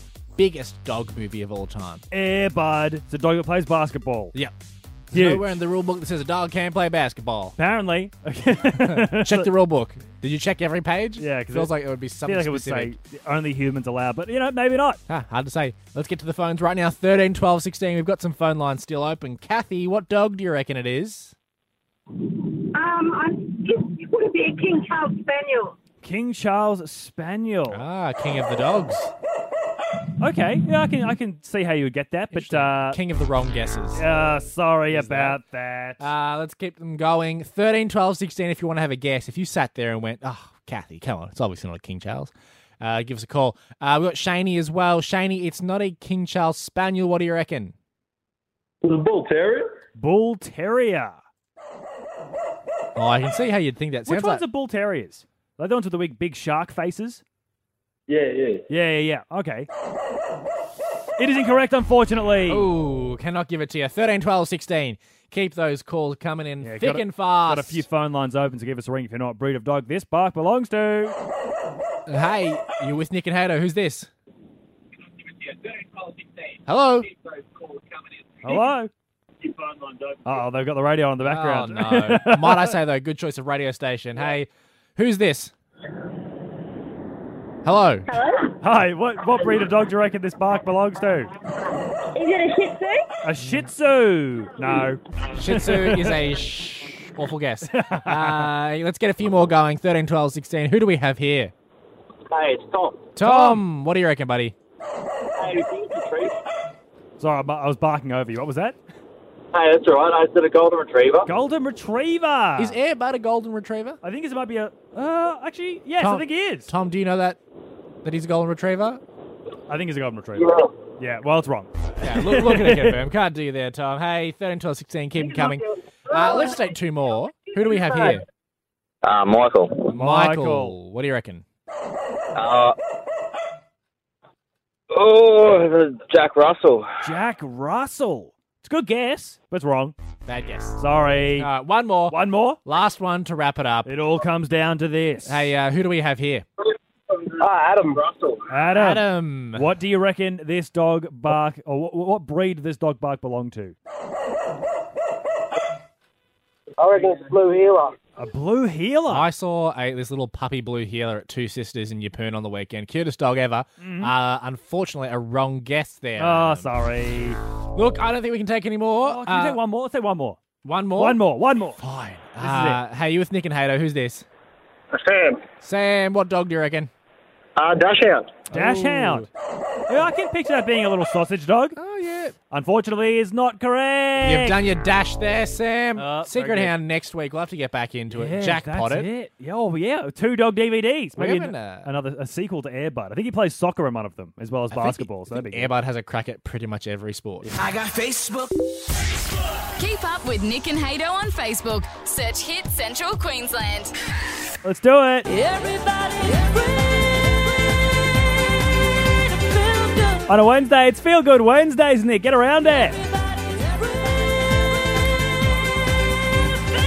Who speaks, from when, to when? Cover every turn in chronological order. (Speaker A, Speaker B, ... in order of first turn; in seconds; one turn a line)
Speaker A: 0.4-2.0
Speaker B: 2.1-4.3
Speaker A: 5.1-7.5
Speaker B: 5.1-5.5
Speaker B: 7.6-9.5
Speaker A: 8.8-12.9
Speaker B: 11.2-15.0
Speaker A: 15.1-21.3
Speaker C: 22.1-25.7
Speaker B: 26.0-27.8
Speaker A: 27.7-29.1
Speaker B: 30.2-33.0
Speaker A: 32.3-34.0
Speaker B: 33.9-36.1
Speaker A: 34.9-35.4
Speaker A: 36.0-47.7
Speaker D: 48.8-49.6
Speaker B: 50.0-51.2
Speaker A: 53.0-54.4
Speaker B: 54.0-57.2
Speaker D: 58.1-58.5
Speaker B: 58.7-59.7
Speaker B: 61.2-62.7
Speaker A: 62.5-67.8
Speaker B: 66.6-71.2
Speaker A: 72.0-74.1
Speaker A: 76.7-77.1
Speaker B: 78.4-78.9
Speaker B: 80.2-82.8
Speaker A: 81.2-85.5
Speaker A: 87.6-88.1
Speaker C: 88.1-88.5
Speaker B: 88.6-91.3
Speaker C: 92.1-93.0
Speaker B: 93.2-96.2
Speaker A: 95.3-101.5
Speaker B: 97.6-98.5
Speaker E: 102.3-103.1
Speaker A: 103.1-104.5
Speaker B: 103.2-103.6
Speaker E: 105.4-106.4
Speaker B: 107.2-108.8
Speaker E: 109.5-111.3
Speaker B: 111.2-112.8
Speaker A: 112.6-114.0
Speaker B: 114.0-116.7
Speaker A: 116.0-117.4
Speaker A: 118.0-119.0
Speaker B: 119.7-123.0
Speaker A: 122.0-128.2
Speaker E: 129.0-129.9
Speaker A: 129.8-131.4
Speaker B: 129.9-130.7
Speaker E: 132.3-132.7
Speaker E: 134.9-136.9
Speaker B: 137.0-139.9
Speaker A: 140.2-140.8
Speaker B: 140.8-141.5
Speaker A: 141.4-143.9
Speaker B: 142.1-142.6
Speaker B: 143.8-145.5
Speaker A: 145.2-146.4
Speaker E: 147.4-148.3
Speaker D: 147.4-148.2
Speaker B: 148.5-153.7
Speaker A: 148.7-149.7
Speaker E: 156.8-157.9
Speaker B: 158.2-159.3
Speaker A: 159.1-166.7
Speaker B: 163.8-164.1
Speaker B: 166.2-167.4
Speaker A: 167.7-169.6
Speaker B: 169.0-170.4
Speaker A: 170.6-171.2
Speaker B: 170.9-171.8
Speaker A: 171.8-174.2
Speaker B: 172.4-172.8
Speaker E: 174.9-175.4
Speaker A: 175.6-176.9
Speaker E: 177.6-178.3
Speaker A: 178.5-179.3
Speaker B: 178.5-179.3
Speaker B: 179.9-181.8
Speaker A: 181.8-182.3
Speaker B: 182.5-184.6
Speaker A: 184.2-189.1
Speaker B: 185.9-186.7
Speaker B: 188.1-195.7
Speaker A: 191.2-191.9
Speaker A: 194.7-197.5
Speaker E: 197.6-198.5
Speaker F: 199.8-203.9
Speaker B: 204.6-205.4
Speaker B: 210.2-213.0